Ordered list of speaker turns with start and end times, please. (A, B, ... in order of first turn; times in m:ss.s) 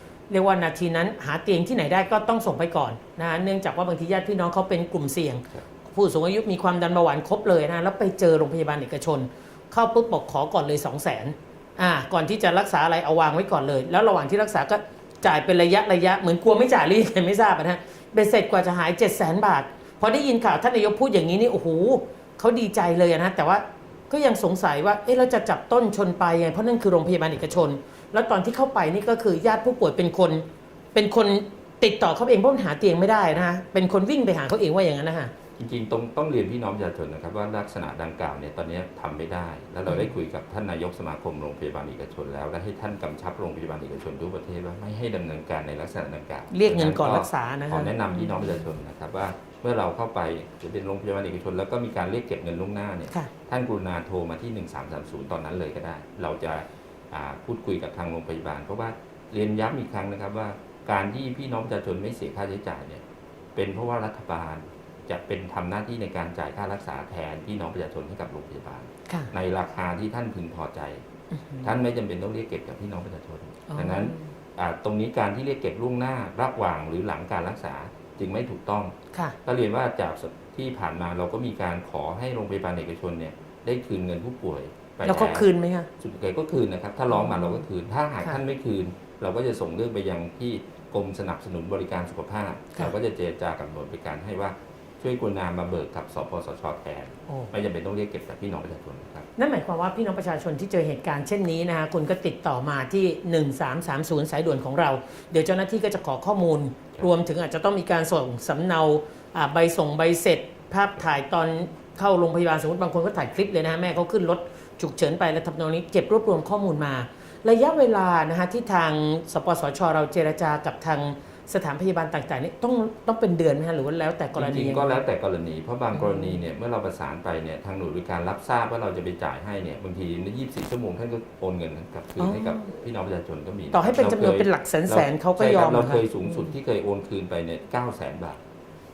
0:00.3-0:35.3 A
0:35.6-1:03.0 B
0:39.9-0:40.1 A
0:46.5-0:48.6 A
1:03.6-1:11.0 B
1:11.3-1:11.8 A
1:11.6-1:18.9 B
1:13.7-1:14.3 A
1:19.4-1:25.5 B
1:25.0-1:25.9 A
1:26.0-1:39.3 B
1:27.1-1:27.6 A
1:39.4-2:05.0 A
2:04.3-2:18.4 B
2:05.9-2:06.4 A
2:12.2-2:12.7 A
2:13.7-2:16.6 A